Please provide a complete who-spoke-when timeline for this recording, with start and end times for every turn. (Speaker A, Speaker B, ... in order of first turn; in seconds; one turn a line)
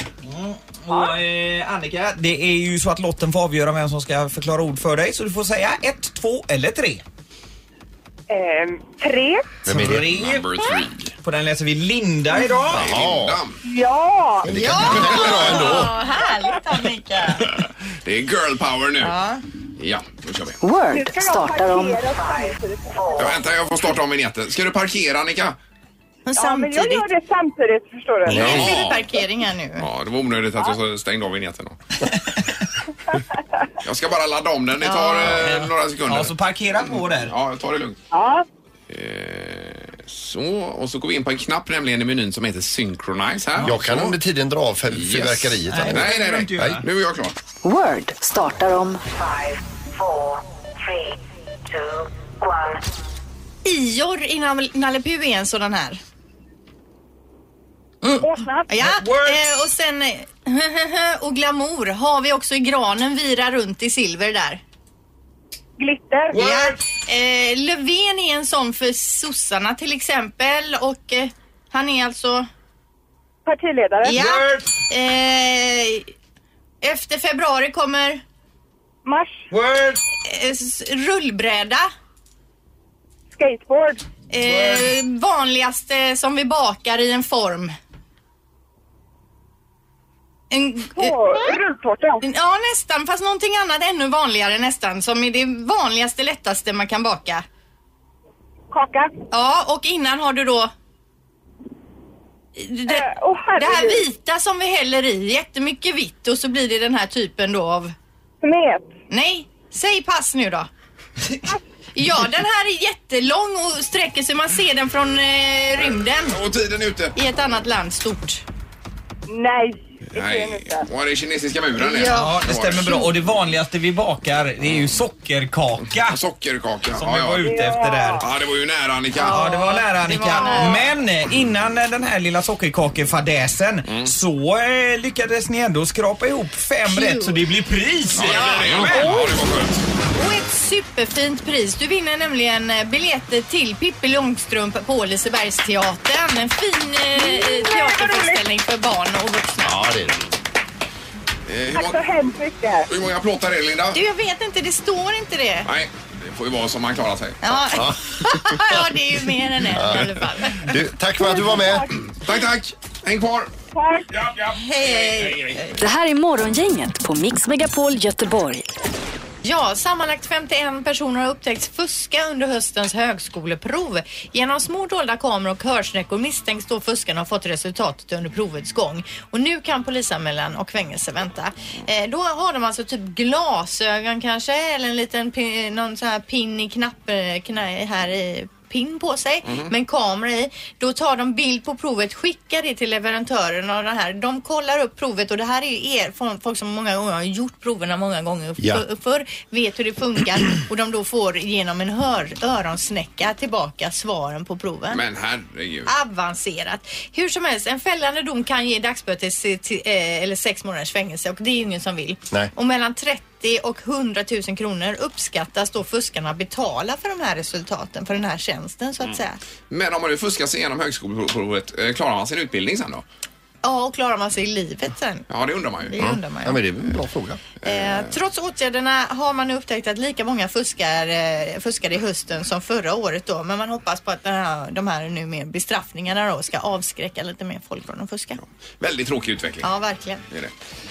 Speaker A: 0.2-7.0
Speaker B: 0.9-1.2
Speaker B: 8.3-9.6
Speaker C: 9.7-10.1
Speaker A: 9.7-10.5
Speaker D: 9.8-11.1
Speaker A: 11.2-12.8
Speaker C: 12.7-13.4
Speaker D: 12.7-13.6
Speaker B: 13.6-14.5
Speaker C: 14.4-15.9
Speaker E: 14.5-17.5
Speaker D: 14.9-15.7
Speaker D: 17.6-19.1
Speaker E: 19.0-19.4
Speaker D: 19.8-20.6
Speaker F: 20.6-22.0
Speaker B: 20.9-23.2
Speaker D: 23.1-25.6
Speaker E: 26.2-27.1
Speaker B: 26.3-28.5
Speaker C: 28.2-28.7
Speaker D: 28.3-29.1
Speaker E: 28.3-29.9
Speaker D: 29.8-31.8
Speaker D: 33.8-38.0
Speaker E: 34.8-35.4
Speaker A: 35.2-37.3
Speaker B: 38.1-38.4
Speaker D: 38.9-44.1
Speaker C: 43.6-46.8
Speaker D: 44.9-47.4
Speaker A: 45.7-46.8
Speaker F: 47.6-49.0
Speaker E: 53.6-56.0
Speaker E: 58.0-64.6
Speaker B: 58.2-58.7
Speaker A: 58.8-59.4
Speaker B: 65.8-66.4
Speaker A: 66.3-66.8
Speaker E: 66.3-72.5
Speaker B: 73.5-74.2
Speaker A: 74.0-74.7
Speaker E: 74.0-76.1
Speaker E: 76.8-78.2
Speaker B: 79.0-79.4
Speaker A: 79.5-80.0
Speaker E: 80.2-81.8
Speaker B: 83.3-84.0
Speaker E: 84.3-87.7
Speaker A: 84.4-84.9
Speaker E: 90.5-91.5
Speaker B: 90.9-92.2
Speaker E: 92.2-97.4
Speaker B: 98.7-99.2
Speaker E: 99.3-100.7
Speaker E: 102.5-103.0
Speaker B: 102.9-104.0
Speaker E: 103.6-107.9
Speaker B: 108.4-108.9
Speaker E: 109.1-110.7
Speaker E: 111.9-116.4
Speaker D: 116.2-117.2
Speaker E: 117.1-118.4
Speaker B: 119.3-120.9
Speaker D: 120.1-123.0
Speaker E: 121.8-123.1
Speaker A: 122.1-126.2
Speaker D: 126.1-127.5
Speaker A: 127.0-128.2
Speaker B: 127.4-128.2
Speaker D: 128.2-129.5
Speaker E: 129.2-130.8
Speaker A: 129.2-139.2
Speaker B: 129.3-130.8
Speaker E: 136.8-137.4
Speaker D: 138.1-139.8
Speaker E: 138.2-139.3
Speaker E: 140.1-149.8
Speaker B: 147.2-148.4
Speaker C: 149.6-150.2
Speaker D: 151.5-152.0
Speaker B: 151.7-152.9
Speaker D: 152.9-154.0
Speaker E: 153.9-155.7
Speaker D: 155.6-157.6
Speaker E: 157.4-160.7
Speaker C: 157.7-158.8
Speaker C: 159.7-161.9
Speaker B: 161.2-161.9
Speaker D: 162.1-163.5
Speaker B: 163.7-164.1
Speaker D: 164.1-165.6
Speaker E: 164.5-165.8
Speaker F: 165.8-168.6
Speaker E: 169.4-205.0
Speaker C: 198.6-198.8
Speaker D: 204.9-205.9
Speaker E: 205.9-219.4
Speaker D: 219.7-223.0
Speaker E: 223.6-225.3
Speaker D: 225.3-225.9
Speaker E: 225.8-226.6
Speaker C: 226.0-227.4
Speaker D: 227.6-228.1
Speaker E: 227.6-238.4
Speaker D: 238.8-239.7
Speaker E: 239.6-240.2